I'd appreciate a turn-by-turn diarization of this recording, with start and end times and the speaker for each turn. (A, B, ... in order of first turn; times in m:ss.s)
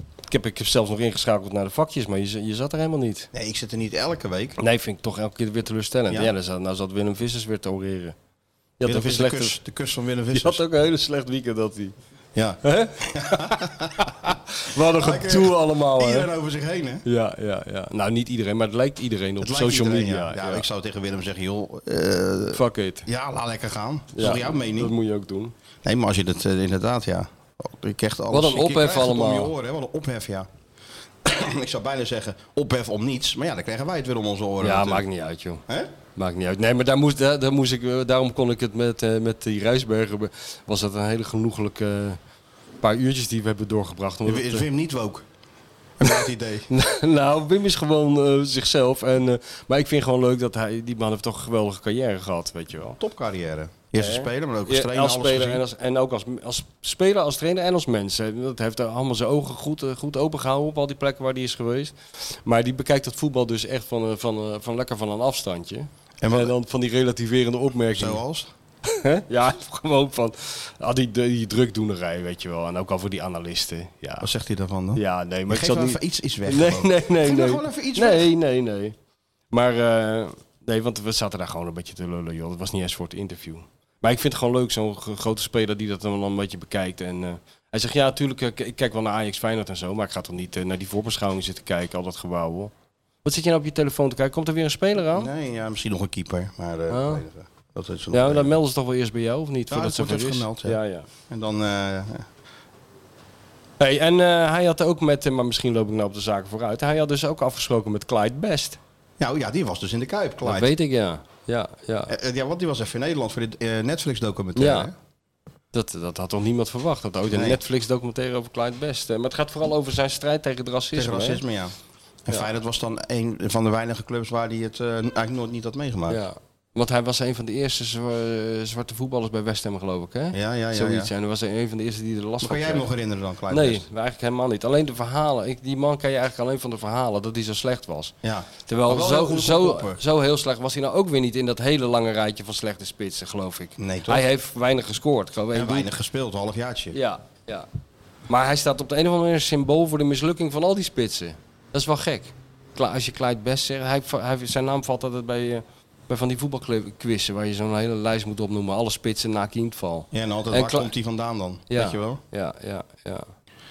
0:00.3-0:03.3 A
0:03.3-0:04.6 B
0:04.6-0:08.1 A
0:08.8-0:09.6 A
0:08.8-0:10.6 B
0:10.3-0:11.9 A
0:12.3-0:14.3 B
0:12.6-0:16.3 A
0:14.9-0:17.0 B
0:17.0-0:20.6 A
0:19.4-0:24.9 B
0:22.5-0:23.0 A
0:24.2-0:25.5 A
0:25.8-0:30.5 B
0:28.3-0:29.5 A
0:31.2-0:35.0 B
0:34.6-0:35.6 A
0:36.2-0:42.2 A
0:42.8-0:44.6 A
0:44.2-0:45.2 B
0:46.0-0:46.7 B
0:46.7-0:53.0 A
0:53.0-0:55.6 B
0:54.0-1:08.2 A
1:06.2-1:06.5 B
1:07.9-1:08.5 B
1:08.9-1:14.3 A
1:14.2-1:18.3 B
1:15.0-1:18.9 A
1:19.5-1:32.7 A
1:33.2-1:35.3 A
1:35.1-1:38.5 B
1:36.9-1:37.2 A
1:38.1-1:41.0 A
1:39.7-1:40.8 B
1:41.3-1:42.3 B
1:43.8-1:48.8 A
1:49.2-1:50.7 B
1:50.4-1:52.1 A
1:52.1-1:54.9 B
1:54.6-1:54.9 A
1:55.7-2:01.4 A
1:57.3-1:57.6 B
2:00.9-2:01.7 B
2:02.2-2:06.2 B
2:06.1-2:12.9 A
2:10.3-2:11.1 B
2:12.4-2:13.8 B
2:13.5-2:18.1 A
2:18.2-2:20.0 B
2:18.7-2:25.9 A
2:23.8-2:24.2 B
2:25.5-2:27.0 B
2:26.9-2:27.6 A
2:28.3-2:40.9 A
2:40.1-2:42.2 B
2:41.7-2:43.2 A